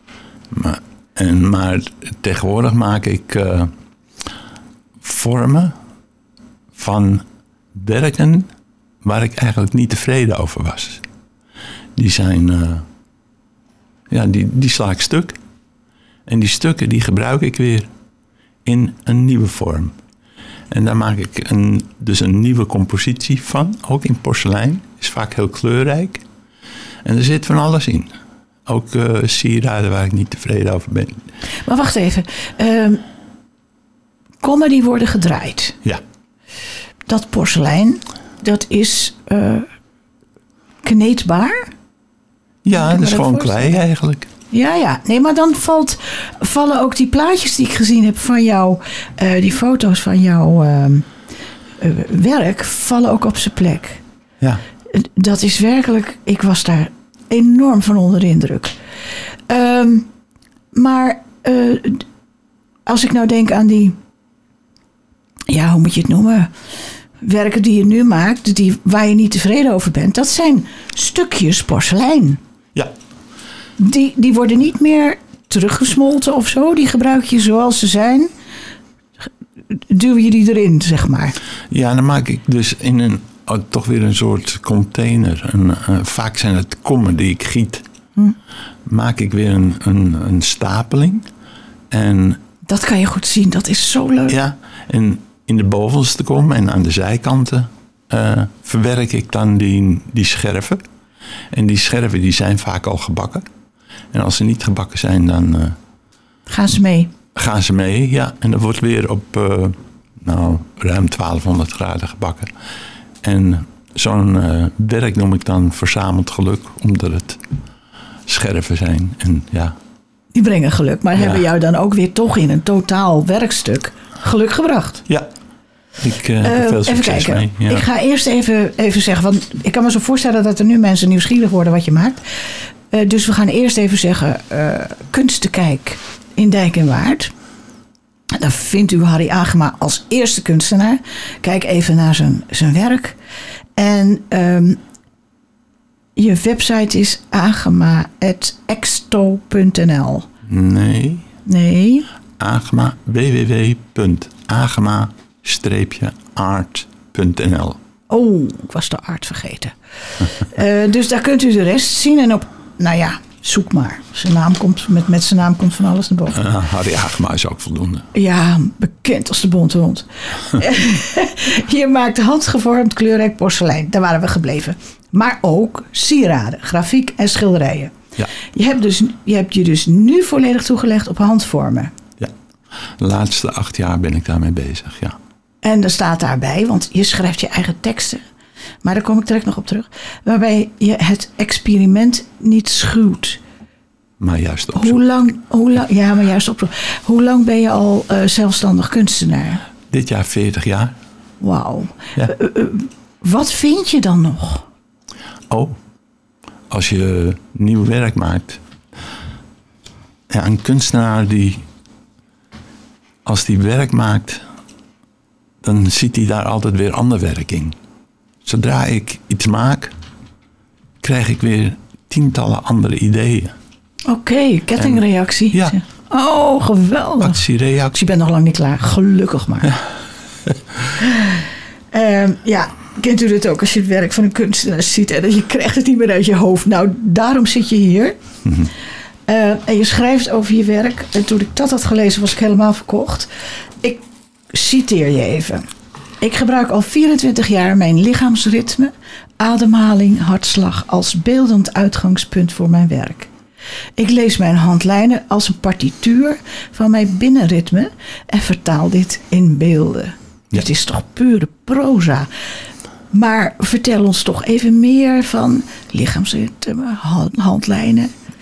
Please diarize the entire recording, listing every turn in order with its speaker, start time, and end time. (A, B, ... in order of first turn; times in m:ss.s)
0:00.5-0:03.7 A
0:05.0-0:05.7 A
0:06.7-0:08.5 A
0:09.0-0:11.0 A
0:12.0-0:12.8 A
0:14.1-0:15.4 A
0:16.3-0:17.9 A
0:18.6-0:20.0 A
0:20.7-0:26.2 A
0:27.0-0:28.1 A
0:28.6-0:31.2 A
0:31.6-0:33.0 B
0:34.4-0:35.8 B
0:37.1-0:39.7 B
0:40.8-0:41.7 B
0:42.6-0:44.3 A
0:42.7-0:43.8 B
0:44.5-0:51.1 B
0:51.8-0:54.0 B
0:54.9-0:58.8 B
0:59.5-1:00.1 B
1:00.7-1:02.0 B
1:02.8-1:04.0 B
1:05.5-1:06.5 B
1:07.2-1:12.4 B
1:13.8-1:18.3 B
1:19.7-1:21.3 B
1:21.7-1:27.8 A
1:28.8-1:31.2 A
1:31.9-1:32.4 A
1:32.6-1:34.4 B
1:34.3-1:40.8 A
1:41.5-1:43.4 A
1:44.1-1:45.8 A
1:46.5-1:47.1 B
1:47.3-1:52.5 A
1:53.2-1:57.4 A
1:58.3-1:59.8 A
2:00.3-2:05.0 B
2:01.1-2:01.4 A
2:06.0-2:07.8 A
2:06.4-2:17.3 B
2:18.4-2:23.2 B
2:23.8-2:24.8 B
2:26.2-2:30.3 B
2:30.4-2:31.3 A
2:31.4-2:32.0 B
2:32.4-2:37.8 A
2:38.1-2:46.4 B
2:46.3-2:48.1 A
2:48.1-3:01.9 B
3:03.0-3:05.2 A
3:05.6-3:08.2 B
3:08.8-3:13.4 B
3:14.2-3:15.0 A
3:14.7-3:19.6 B
3:19.9-3:20.9 A
3:21.4-3:24.6 B
3:25.5-3:25.8 A
3:26.7-3:28.6 A
3:30.3-3:31.6 A
3:33.2-3:34.4 A
3:35.6-3:37.8 A
3:38.4-3:39.9 A
3:41.0-3:43.5 A
3:44.1-3:49.7 B
3:44.8-3:45.8 A
3:47.2-3:48.0 A
3:51.0-3:58.2 B
3:58.4-3:58.7 A
3:59.3-4:03.3 B
4:03.8-4:05.6 B
4:06.2-4:13.3 B
4:14.0-4:22.3 B
4:23.1-4:28.1 B